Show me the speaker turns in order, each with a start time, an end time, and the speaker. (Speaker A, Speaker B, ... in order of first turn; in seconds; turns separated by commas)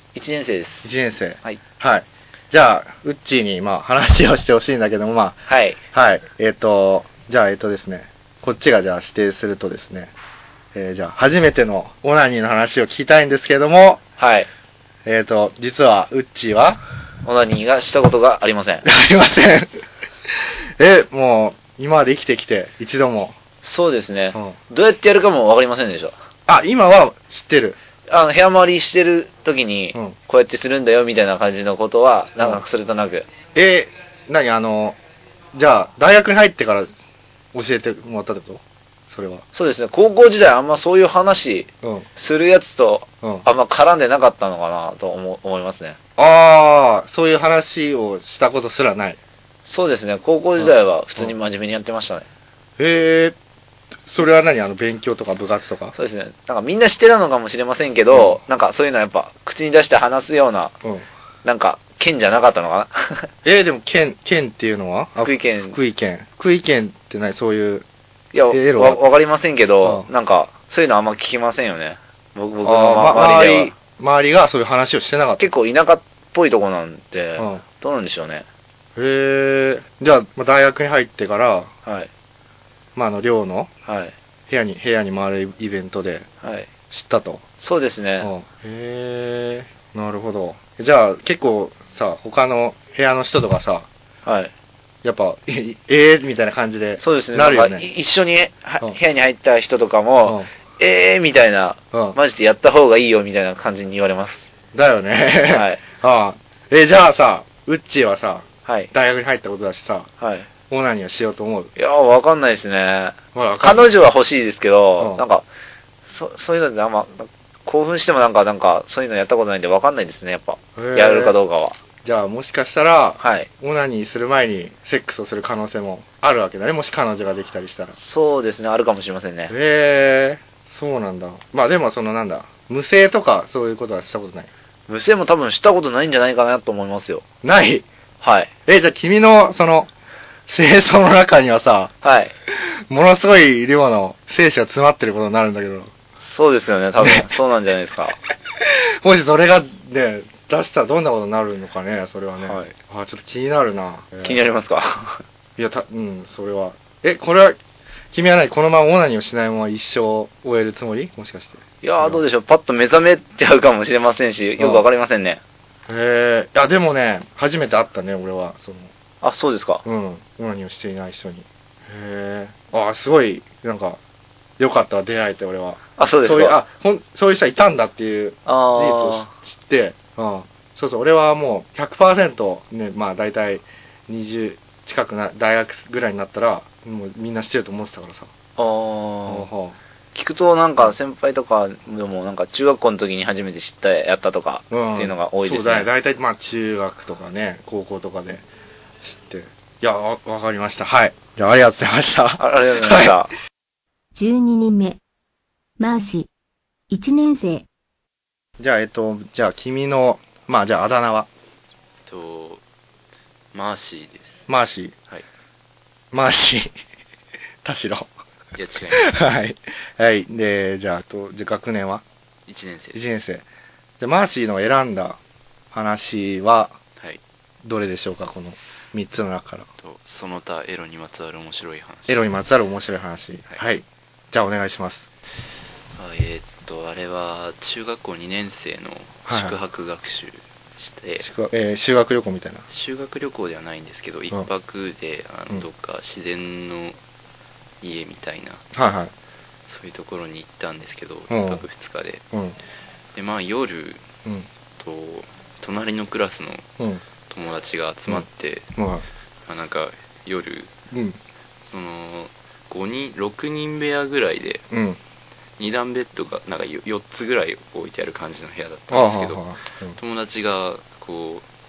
Speaker A: 0.1-0.9, Speaker B: 0.8-10.1, Speaker A: 5.5-5.8, Speaker B: 10.7-14.0, Speaker A: 14.2-14.5, Speaker B: 15.0-16.8, Speaker A: 17.2-18.8, Speaker B: 18.8-23.4, Speaker A: 23.6-26.1, Speaker B: 26.5-27.8, Speaker A: 28.1-33.2, Speaker B: 33.5-35.0, Speaker B: 35.5-36.9, Speaker B: 37.5-39.4, Speaker A: 39.5-46.0, Speaker B: 46.2-49.2, Speaker A: 49.6-52.2, Speaker B: 50.6-51.3, Speaker B: 52.8-53.4, Speaker B: 54.1-55.9, Speaker A: 55.9-60.7, Speaker B: 58.1-58.4, Speaker A: 61.4-63.3, Speaker B: 63.4-67.8, Speaker A: 65.2-65.8, Speaker A: 68.3-73.7, Speaker B: 68.5-69.0, Speaker B: 72.6-75.5, Speaker A: 75.4-78.5, Speaker B: 77.4-77.6, Speaker B: 79.0-81.7, Speaker A: 81.8-82.1, Speaker B: 83.0-83.7, Speaker A: 83.8-84.1, Speaker B: 84.5-86.3, Speaker A: 86.4-86.7, Speaker B: 86.9-87.4, Speaker A: 87.6-88.3, Speaker B: 88.2-93.9, Speaker A: 94.2-94.5, Speaker B: 95.0-97.9, Speaker A: 97.0-104.5, Speaker B: 101.9-102.2, Speaker B: 104.7-110.1, Speaker A: 105.5-105.8, Speaker A: 108.7-108.9, Speaker A: 110.2-110.5, Speaker B: 110.7-111.7, Speaker A: 111.8-115.5, Speaker B: 113.3-113.9, Speaker A: 116.1-121.8, Speaker B: 120.8-121.3, Speaker B: 122.0-128.0, Speaker A: 123.2-123.5, Speaker A: 128.0-129.5, Speaker B: 129.5-134.5, Speaker A: 134.9-137.2, Speaker B: 137.4-137.8, Speaker A: 138.2-138.5, Speaker B: 138.7-139.9, Speaker B: 140.5-141.9, Speaker A: 142.0-142.3, Speaker B: 142.5-145.9, Speaker A: 146.2-148.2, Speaker B: 147.0-147.3, Speaker B: 148.6-154.4, Speaker A: 152.4-152.7, Speaker A: 154.2-155.2, Speaker B: 155.6-157.6, Speaker B: 158.1-162.2, Speaker A: 161.8-165.4, Speaker B: 164.6-164.8, Speaker B: 165.9-168.9, Speaker A: 169.2-169.8, Speaker B: 169.8-174.0, Speaker B: 174.6-188.3, Speaker A: 176.0-176.6, Speaker A: 178.4-179.3, Speaker A: 188.6-189.5, Speaker B: 189.2-189.8, Speaker A: 190.1-195.9, Speaker B: 194.7-198.4, Speaker B: 199.0-203.2, Speaker A: 202.4-203.3, Speaker C: 204.2-205.0, Speaker C: 205.8-206.3, Speaker C: 206.9-207.6, Speaker B: 208.6-211.3, Speaker D: 212.1-212.6, Speaker D: 213.5-214.4, Speaker B: 214.5-214.9, Speaker B: 216.1-216.7, Speaker B: 217.6-218.1, Speaker D: 218.5-219.1, Speaker B: 218.9-222.0, Speaker D: 222.5-223.0, Speaker B: 222.9-223.4, Speaker B: 224.0-225.2, Speaker B: 225.7-226.8, Speaker B: 227.6-229.7, Speaker D: 229.8-232.2, Speaker B: 232.1-235.1, Speaker D: 235.9-241.3, Speaker B: 239.3-239.6, Speaker B: 241.2-242.6, Speaker D: 242.7-247.0, Speaker D: 247.8-248.6, Speaker B: 248.7-249.1, Speaker D: 249.7-252.2, Speaker B: 251.3-251.6, Speaker D: 253.1-254.0, Speaker D: 254.8-256.6, Speaker D: 257.3-258.7, Speaker B: 258.1-259.0, Speaker D: 259.5-260.7, Speaker B: 260.9-261.2, Speaker D: 261.6-264.6, Speaker B: 264.7-265.0, Speaker D: 265.6-269.4, Speaker B: 268.9-270.0, Speaker D: 269.9-271.4